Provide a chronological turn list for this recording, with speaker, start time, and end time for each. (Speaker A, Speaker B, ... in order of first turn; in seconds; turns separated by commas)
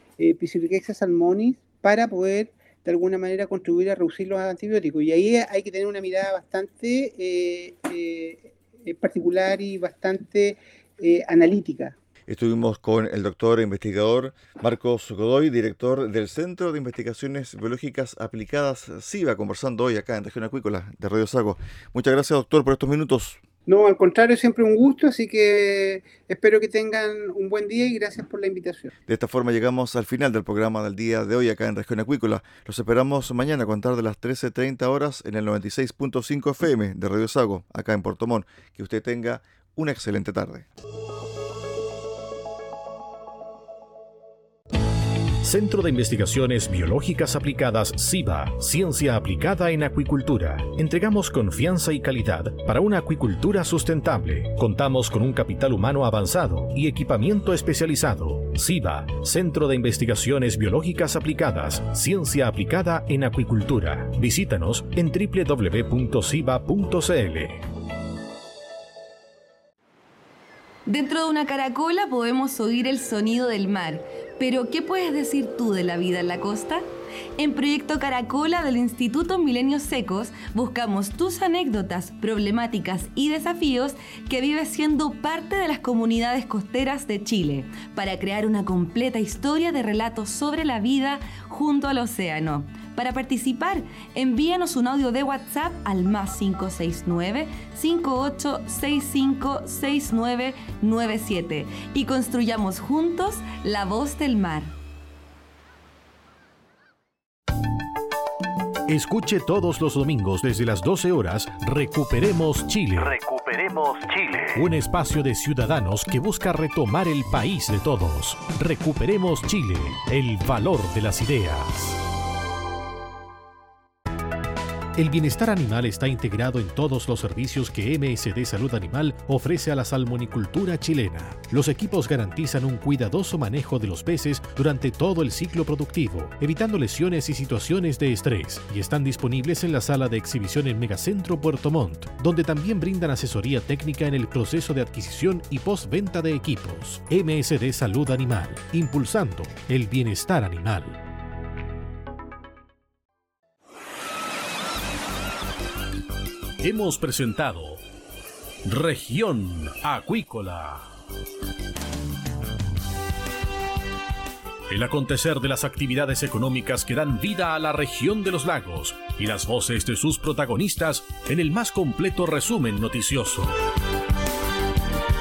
Speaker A: 0.2-11.9, Speaker B: 12.3-23.4, Speaker A: 23.6-28.9, Speaker B: 29.1-40.7, Speaker C: 45.4-67.6, Speaker D: 70.9-76.9, Speaker D: 77.4-104.7, Speaker C: 108.9-122.0, Speaker C: 125.0-151.0, Speaker C: 156.6-157.8, Speaker C: 158.6-160.9, Speaker C: 164.7-173.6